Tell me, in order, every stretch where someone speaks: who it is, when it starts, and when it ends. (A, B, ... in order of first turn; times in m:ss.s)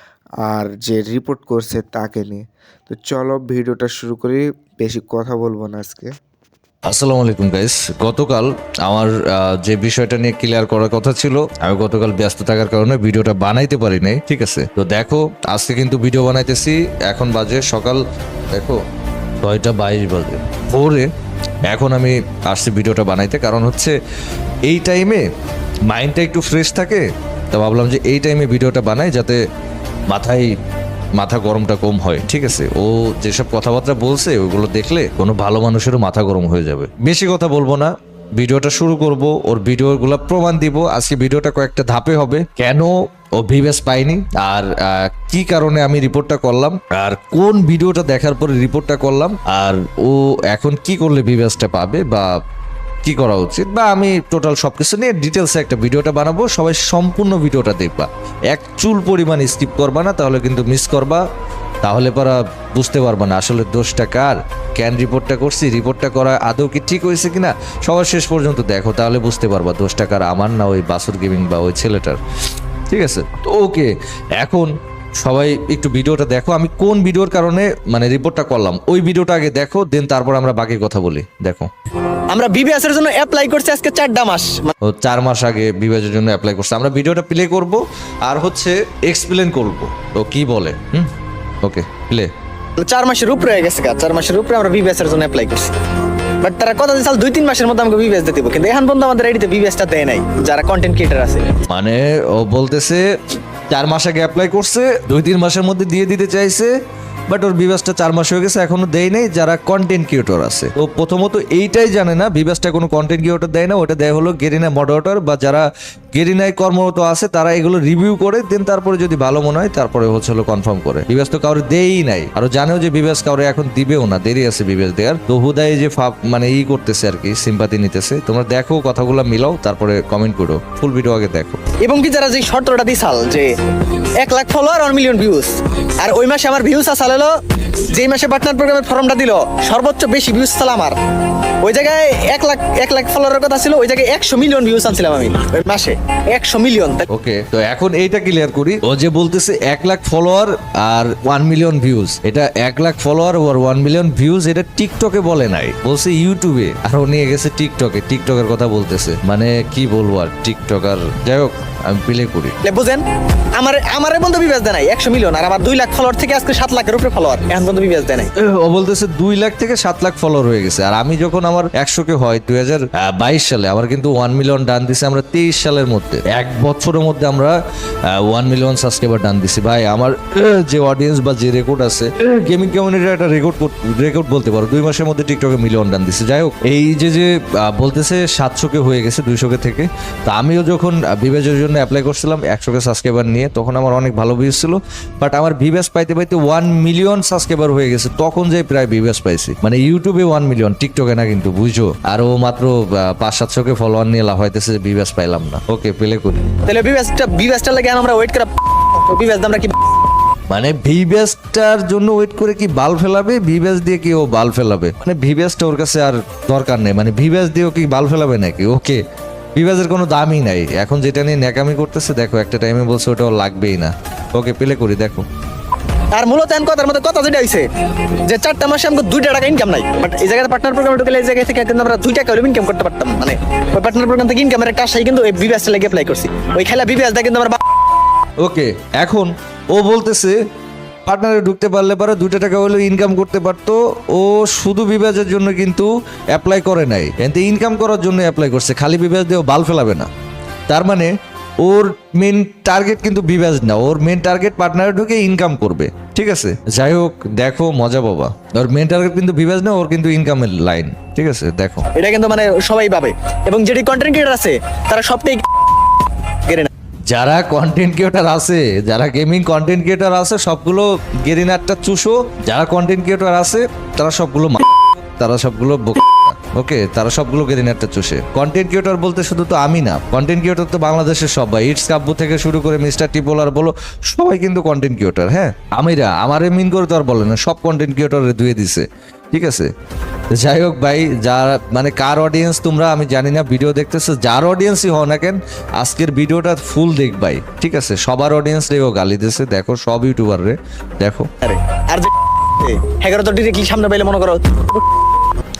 0:00.4-0:06.1 A
0:06.9-0:18.0 B
0:18.5-0:18.8 B
0:19.4-0:21.1 B
0:21.7-0:23.9 B
0:24.7-0:25.3 B
0:25.9-0:29.4 B
0:30.1-0:30.5 B
0:31.2-0:52.3 B
0:53.0-1:01.2 B
1:01.8-1:12.2 B
1:12.9-1:21.7 B
1:22.3-1:24.7 C
1:24.8-1:31.1 B
1:31.6-1:32.3 B
1:32.8-1:35.7 C
1:36.4-1:41.5 C
1:41.7-1:43.0 B
1:43.7-1:46.7 B
1:47.3-2:11.6 B
2:11.8-2:13.5 C
2:14.2-2:21.0 C
2:21.6-2:27.0 C
2:27.1-2:42.5 B
2:42.6-2:43.0 C
2:43.6-2:48.3 C
2:48.3-2:57.5 B
2:58.1-3:26.6 B
3:26.6-3:29.7 C
3:30.5-3:39.0 B
3:39.5-3:45.2 B
3:46.1-3:47.6 C
3:48.3-3:57.6 C
3:58.4-4:00.3 B
4:01.0-4:10.1 B
4:10.7-4:21.9 B
4:22.0-4:25.4 C
4:27.1-4:49.7 B
4:50.3-5:01.3 B
5:01.4-5:04.8 C